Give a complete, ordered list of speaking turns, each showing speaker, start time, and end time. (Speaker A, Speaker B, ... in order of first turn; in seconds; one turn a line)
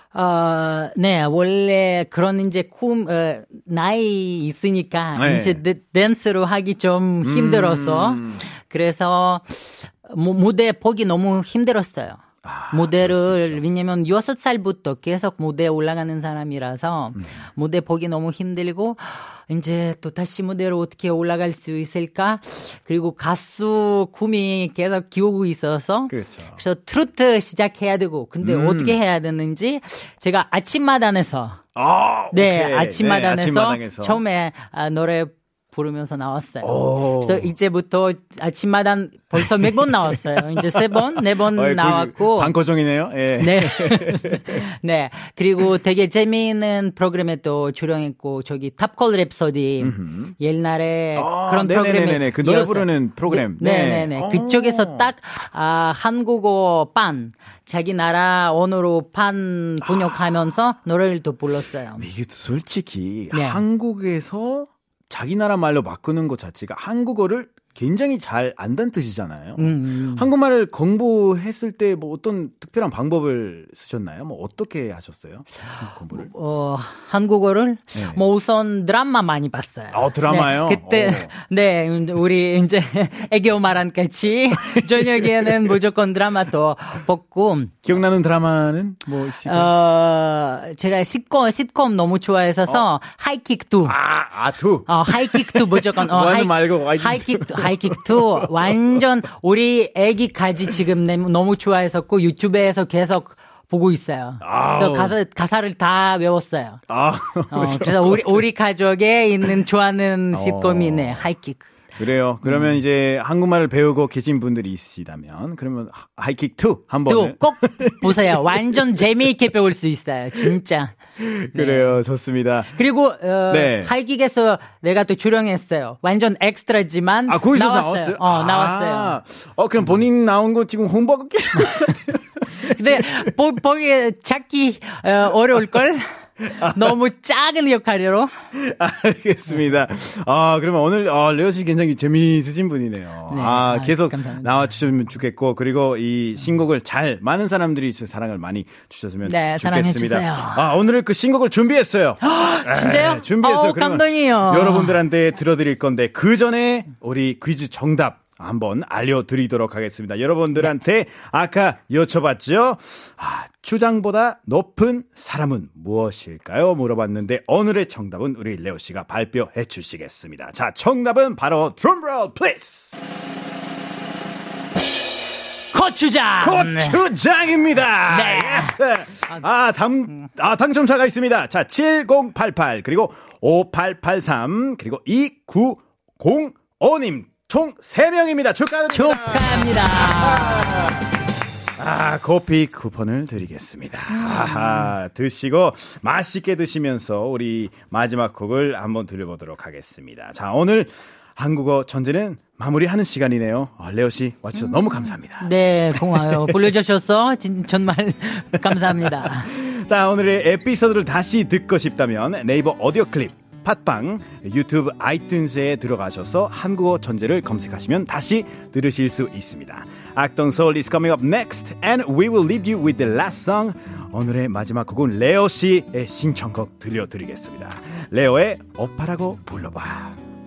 Speaker A: 0.1-31.6
Speaker B: 5.2-5.6
Speaker B: 7.2-8.4
Speaker B: 12.4-13.6
Speaker B: 26.1-26.6
Speaker B: 28.4-29.0
Speaker B: 31.7-34.2
Speaker A: 32.3-42.5
Speaker B: 36.6-37.5
Speaker B: 39.4-44.6
Speaker A: 43.4-62.1
Speaker B: 49.8-50.3
Speaker B: 51.1-55.1
Speaker B: 59.8-60.2
Speaker B: 62.0-76.3
Speaker A: 63.3-63.6
Speaker A: 69.6-70.3
Speaker A: 76.1-87.9
Speaker B: 77.9-78.2
Speaker B: 79.9-81.3
Speaker B: 85.1-85.5
Speaker B: 87.8-89.7
Speaker A: 89.4-94.0
Speaker B: 93.8-99.0
Speaker A: 94.9-106.8
Speaker B: 104.4-105.2
Speaker B: 106.9-108.5
Speaker A: 107.5-111.7
Speaker B: 110.3-111.3
Speaker B: 112.0-118.8
Speaker A: 112.4-112.8
Speaker A: 117.1-121.0
Speaker B: 121.2-122.8
Speaker A: 121.5-122.0
Speaker A: 122.7-129.2
Speaker B: 123.5-123.9
Speaker B: 127.3-133.1
Speaker A: 132.6-138.3
Speaker B: 136.6-136.9
Speaker B: 138.5-173.0
Speaker A: 143.3-144.7
Speaker A: 149.2-150.7
Speaker A: 152.2-155.0
Speaker A: 175.7-177.0
Speaker B: 176.4-191.1
Speaker A: 178.1-179.4
Speaker A: 188.9-191.0
Speaker B: 191.8-206.7
Speaker A: 194.1-194.9
Speaker A: 205.4-209.5
Speaker B: 208.7-230.2